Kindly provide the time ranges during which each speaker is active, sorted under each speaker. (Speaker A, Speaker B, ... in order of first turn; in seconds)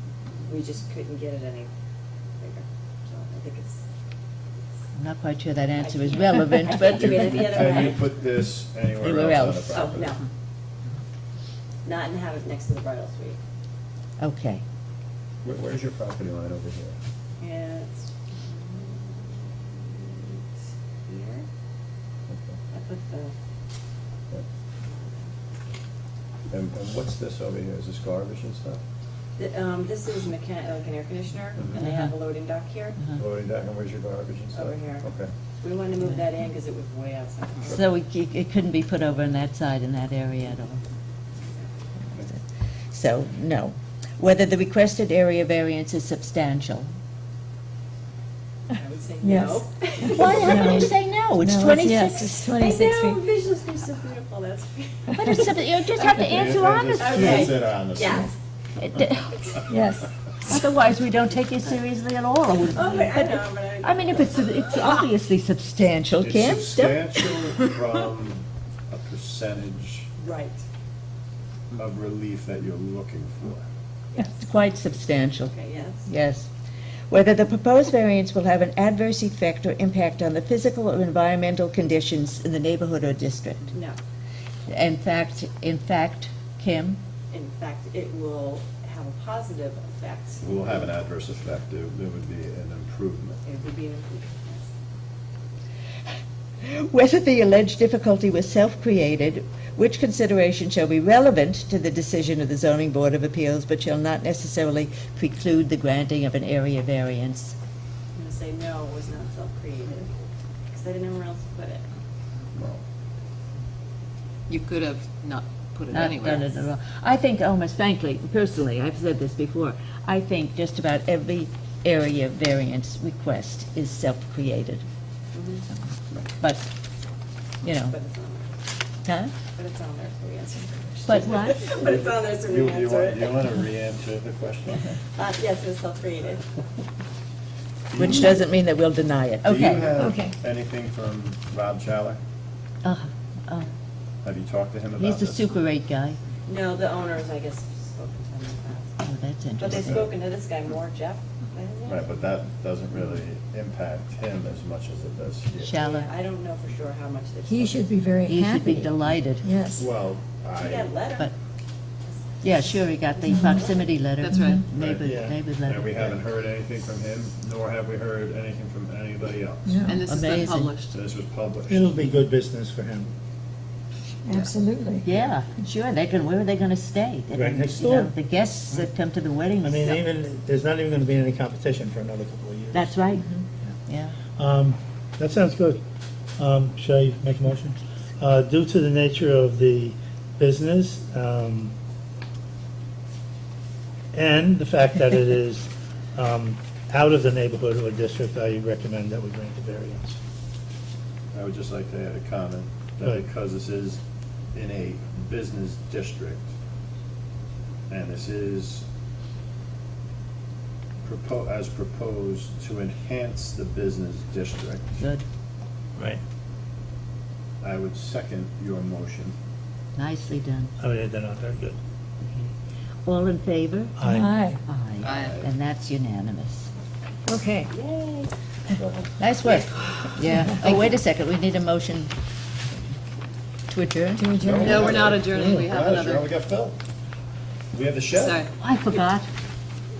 Speaker A: 0.4-1.7, 2.4-3.8, 5.8-8.1, 9.7-10.2, 11.8-13.4, 17.4-20.5, 21.1-21.5, 22.7-23.3, 24.8-25.3, 29.4-33.1, 34.5-35.1, 35.6-37.8, 41.4-42.0, 48.7-50.9, 52.5-56.3, 56.9-58.4, 62.7-65.0, 70.2-70.6, 74.2-74.4, 75.5-76.1, 83.7-84.0, 87.3-90.9, 93.4-94.7, 108.2-111.9, 125.3-125.7, 127.9-128.6, 129.6-133.4, 134.9-136.6, 146.5-149.0, 149.6-152.3, 155.8-158.1, 160.6-161.3, 162.1-163.9, 227.7-228.3
Speaker B: 5.0-8.0, 9.0-10.1, 14.2-14.6, 31.8-32.1, 37.7-40.8, 42.9-46.9, 50.1-52.5, 55.2-57.5, 58.8-59.3, 60.5-67.2, 74.3-75.5, 76.1-76.5, 77.1-83.8, 84.7-87.0, 96.6-107.6, 115.9-124.9, 126.3-126.7, 127.6-128.0, 129.1-129.3, 131.1-131.8, 138.0-139.9, 142.8-143.7, 145.0-146.2, 149.0-150.1, 155.6-156.1, 158.3-159.5, 162.4-166.2, 170.1-170.7, 175.0-180.0, 182.7-184.2, 220.0-220.7, 223.1-223.9, 224.7-226.7, 229.2-232.1, 233.7-234.3, 238.6-239.3
Speaker C: 6.8-10.2, 15.4-17.0, 22.3-22.6, 26.5-28.8, 31.6-31.8, 33.1-35.3, 56.2-58.2, 66.2-70.1, 71.7-73.7, 90.4-93.4, 112.5-112.8, 132.4-134.9, 137.9-138.4, 139.4-142.2, 144.2-145.5, 149.6-150.1, 151.8-155.8, 159.7-160.9, 164.7-169.8, 170.9-172.2, 201.3-204.0, 204.5-206.5, 207.9-208.9, 211.0-215.0, 217.6-219.3, 225.2-225.5, 228.7-229.2, 234.4-236.8, 237.7-238.5
Speaker D: 49.2-53.2, 59.7-60.1, 140.0-140.3, 157.5-159.8, 163.3-163.6, 169.7-170.0, 174.2-175.1, 224.0-224.6, 227.3-227.7, 234.2-234.9
Speaker E: 114.5-116.6, 164.2-164.6, 169.8-171.0, 225.0-225.4, 234.6-236.3, 238.2-238.5
Speaker F: 165.1-165.4, 171.7-173.1, 177.3-178.1, 179.6-183.1, 184.4-185.8, 186.4-191.7, 194.1-200.2, 220.8-221.8, 224.0-224.3